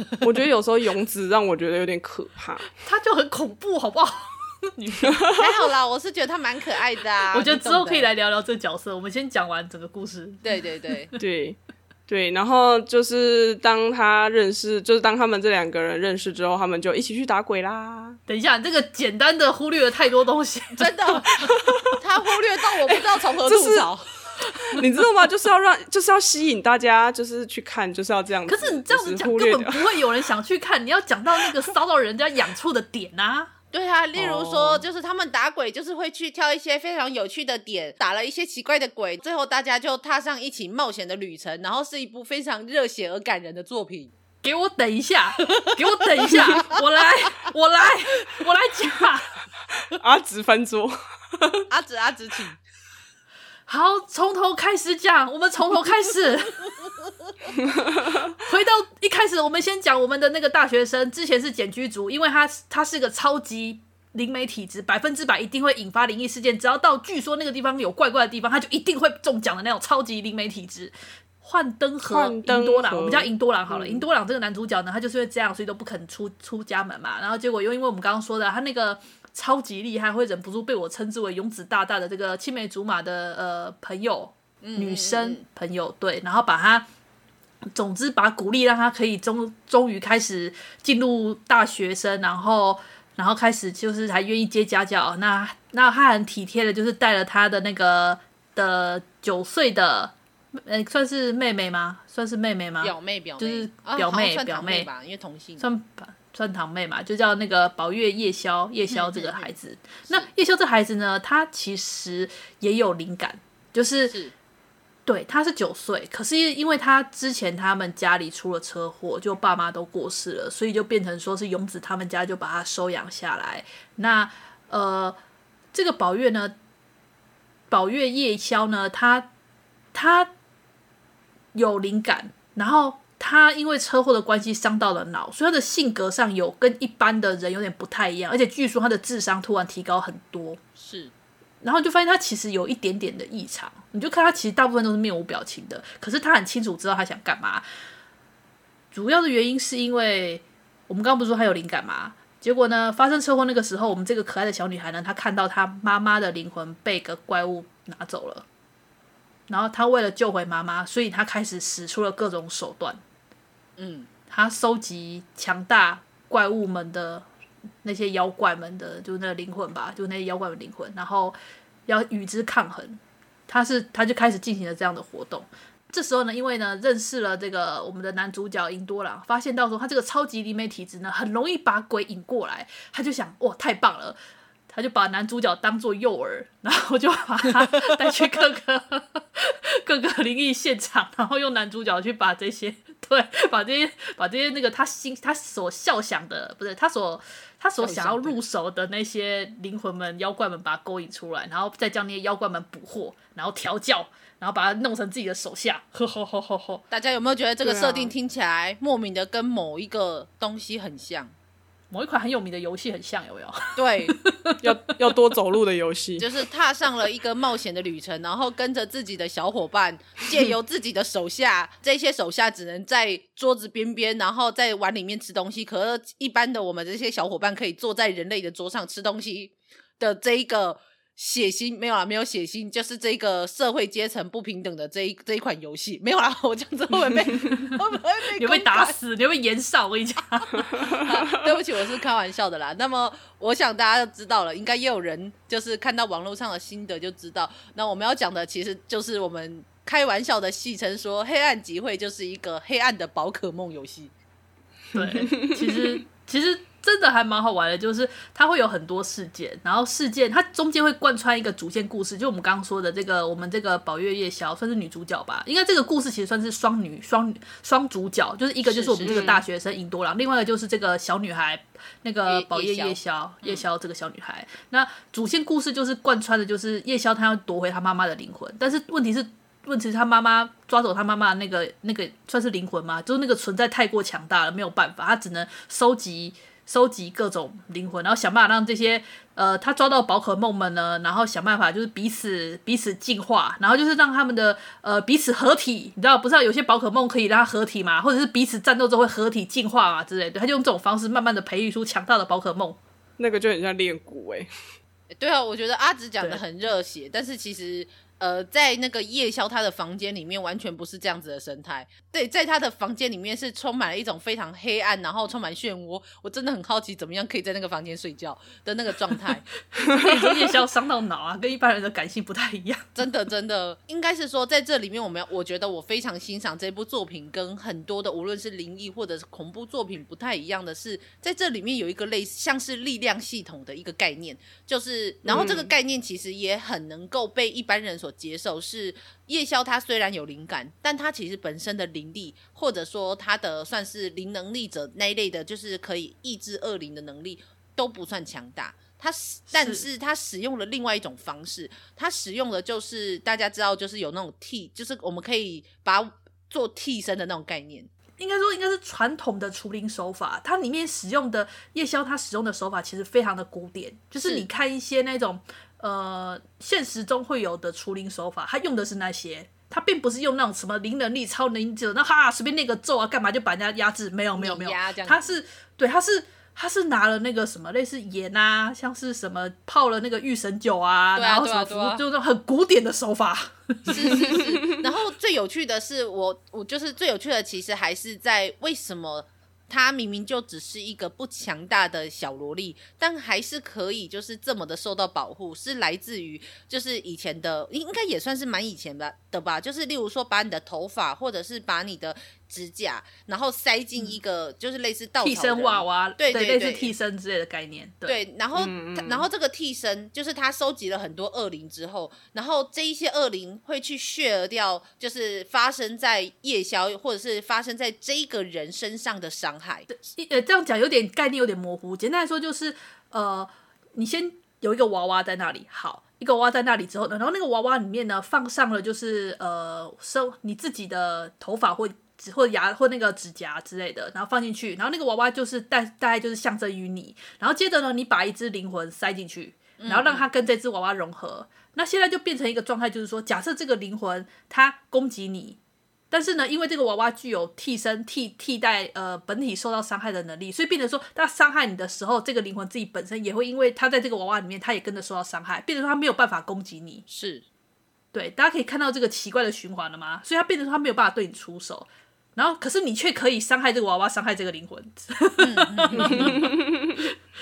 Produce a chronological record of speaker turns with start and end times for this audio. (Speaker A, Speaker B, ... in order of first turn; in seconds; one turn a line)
Speaker A: 0.2-2.7
Speaker B: 2.8-5.2
Speaker C: 5.3-8.1
Speaker B: 7.3-11.2
Speaker C: 10.4-11.1
Speaker A: 11.2-18.2
Speaker B: 18.3-21.5
Speaker C: 20.8-21.3
Speaker C: 22.0-24.1
Speaker B: 23.4-23.9
Speaker A: 24.6-30.1
Speaker B: 28.5-33.5
Speaker C: 33.7-44.1
Speaker A: 34.1-34.8
Speaker B: 44.4-49.4
Speaker A: 49.8-51.6
Speaker C: 51.7-52.5
Speaker B: 53.7-56.8
Speaker B: 58.4-86.9
Speaker A: 72.0-74.0
Speaker C: 84.6-85.4
Speaker B: 87.7-104.9
Speaker C: 102.8-105.7
Speaker B: 105.6-114.1
Speaker C: 108.9-109.5
Speaker C: 114.0-114.3
Speaker B: 115.0-125.2
Speaker B: 125.7-126.5
Speaker B: 127.7-129.3
Speaker B: 129.9-130.3
Speaker B: 131.5-140.6
Speaker C: 140.8-141.1
Speaker B: 141.6-147.6
Speaker B: 148.9-158.4
Speaker B: 159.5-163.0
Speaker C: 163.8-164.1
Speaker B: 164.3-167.3
Speaker B: 167.8-184.2
Speaker B: 184.7-206.8
Speaker C: 197.8-198.4
Speaker C: 206.9-211.3
Speaker A: 207.6-208.1
Speaker B: 211.9-214.5
Speaker C: 213.8-214.2
Speaker A: 214.6-216.3
Speaker C: 216.2-238.9
Speaker B: 238.4-240.8
Speaker C: 241.0-254.1
Speaker B: 254.9-302.8
Speaker C: 268.6-269.3
Speaker A: 269.0-269.4
Speaker C: 272.2-273.6
Speaker A: 303.2-304.5
Speaker C: 305.1-319.5
Speaker B: 319.7-322.9
Speaker C: 322.9-357.9
Speaker A: 335.2-335.7
Speaker B: 349.5-349.8
Speaker B: 358.2-384.4
Speaker C: 364.2-364.4
Speaker C: 374.4-375.4
Speaker C: 381.1-382.0
Speaker C: 383.9-406.9
Speaker B: 405.2-408.2
Speaker C: 408.1-419.9
Speaker A: 408.5-409.2
Speaker B: 419.9-445.6
Speaker C: 439.8-440.3
Speaker B: 446.1-457.0
Speaker C: 457.1-457.4
Speaker B: 458.1-467.1
Speaker C: 465.4-466.3